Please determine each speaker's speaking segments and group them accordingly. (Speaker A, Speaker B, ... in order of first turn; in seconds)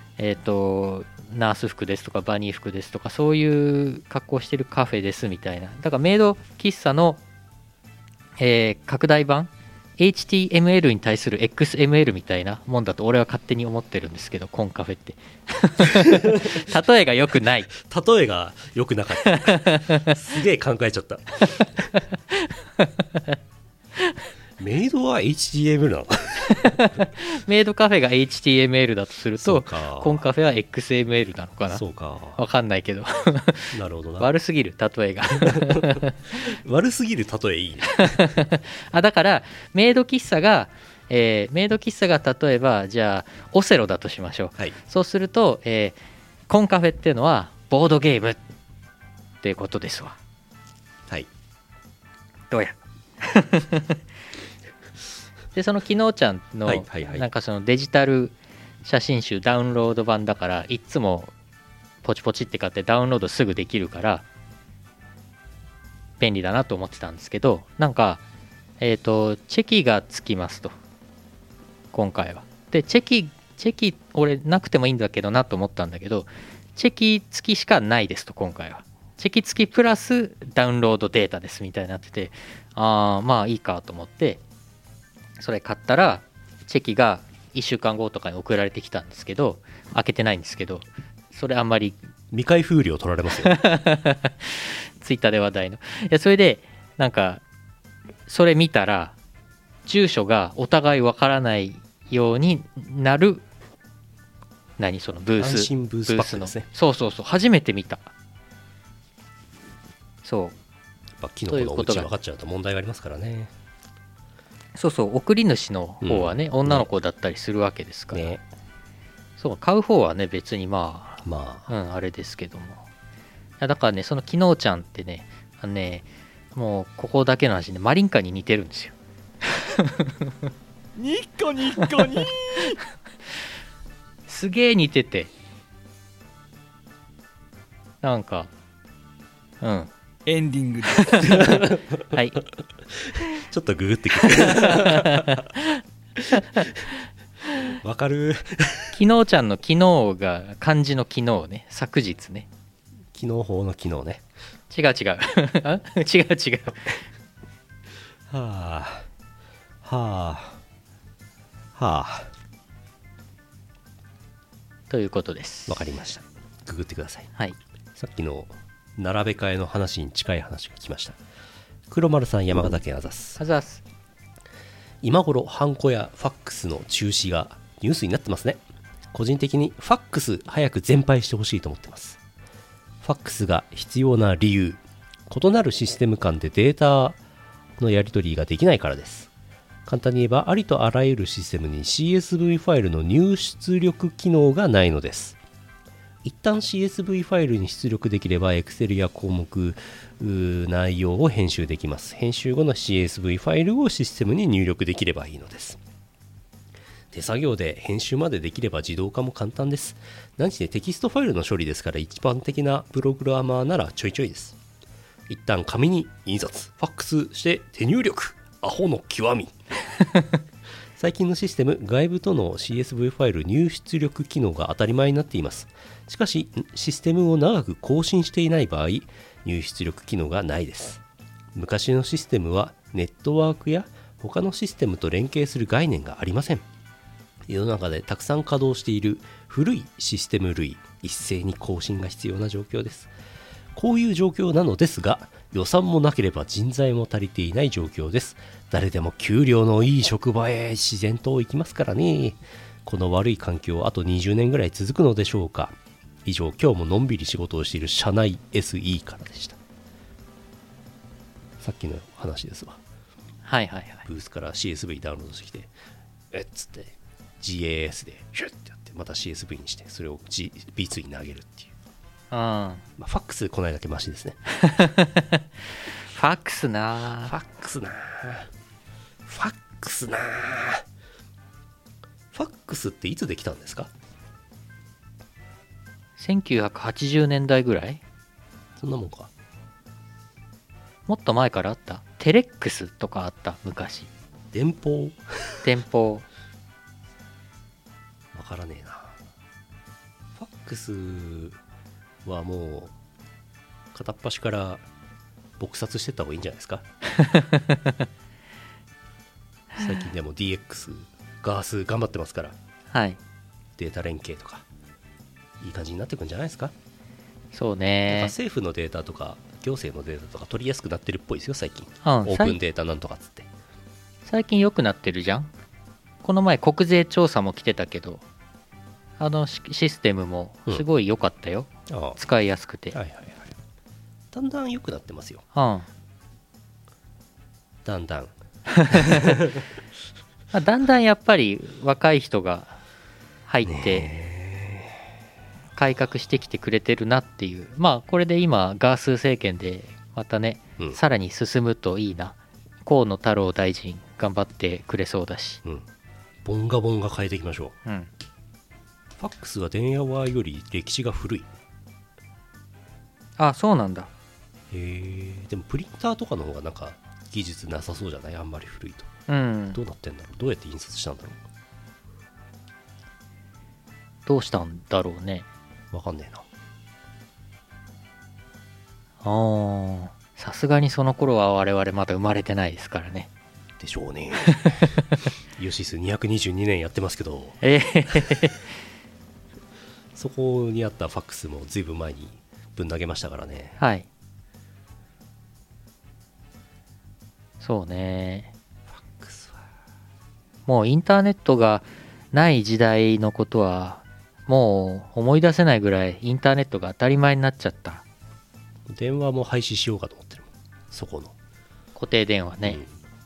Speaker A: 0.2-7.2, 8.4-17.7, 19.2-20.1, 22.3-22.9, 26.5-31.8, 32.4-36.1, 38.0-46.0, 46.5-48.4, 49.4-50.2, 52.5-54.0, 55.5-61.3, 62.0-64.2, 66.2-68.2, 68.8-70.7, 71.9-84.4, 85.4-92.0, 93.4-97.4, 98.3-99.1, 99.8-103.4, 104.8-108.1, 110.2-110.5, 111.5-112.1, 114.7-118.4, 119.4-122.8, 123.6-128.9, 129.5-130.2, 134.3-135.3, 138.0-138.5, 139.6-139.9, 141.0-141.5, 142.1-142.4, 144.3-145.8, 146.3-146.7, 148.9-152.5, 154.7-157.0, 164.9-165.8, 173.4-173.8, 263.4-264.1, 272.3-272.8, 274.5-275.4, 276.1-277.3, 286.2-288.0, 291.1-294.1, 295.6-296.2, 307.1-308.0, 312.9-313.2, 317.5-318.3, 322.0-322.6, 324.2-325.5, 326.2-328.2, 329.2-333.0, 335.5-335.9, 338.9-339.2, 340.5-342.8, 343.5-344.1, 345.7-355.6, 363.4-364.1, 369.3-369.8, 374.2-375.4, 379.2-383.3, 384.5-385.0, 387.6-388.7, 393.8-394.1, 397.6-398.5, 400.6-408.0, 411.9-412.8
Speaker B: 16.1-16.5, 17.8-22.0, 24.6-26.8, 29.4-30.2, 31.7-32.4, 33.7-34.3, 35.3-38.3, 56.6-57.2, 92.3-93.6, 105.4-106.7, 111.2-113.5, 116.0-116.9, 118.1-118.4, 121.2-121.7, 141.4-142.1, 142.9-145.5, 146.2-146.9, 147.6-149.0, 153.1-154.2, 158.3-159.1, 159.8-160.6, 161.7-162.3, 165.7-167.3, 167.9-171.2, 171.9-173.4, 175.0-182.2, 183.0-187.2, 187.8-189.3, 189.8-195.4, 196.2-205.8, 207.1-214.6, 215.3-219.5, 221.0-231.0, 231.5-236.6, 237.5-243.1, 243.7-259.6, 261.6-262.8, 264.1-265.7, 266.3-271.7, 273.0-274.4, 277.2-278.5, 279.2-280.8, 282.3-283.9, 288.8-289.3, 294.5-295.6, 298.3-299.2, 300.4-301.6, 302.2-302.9, 303.9-304.8, 305.6-306.8, 309.7-312.6, 313.8-314.6, 315.6-316.7, 318.1-323.5, 331.9-332.2, 332.9-333.6, 334.3-335.4, 337.8-338.3, 338.9-339.7, 343.6-345.0, 356.4-357.8, 359.2-361.5, 364.7-369.1, 369.7-371.4, 375.9-376.4, 383.8-384.9, 385.6-388.4, 390.1-393.8, 398.9-399.6, 408.9-411.3, 412.6-412.9
Speaker C: 130.9-132.8, 140.2-141.6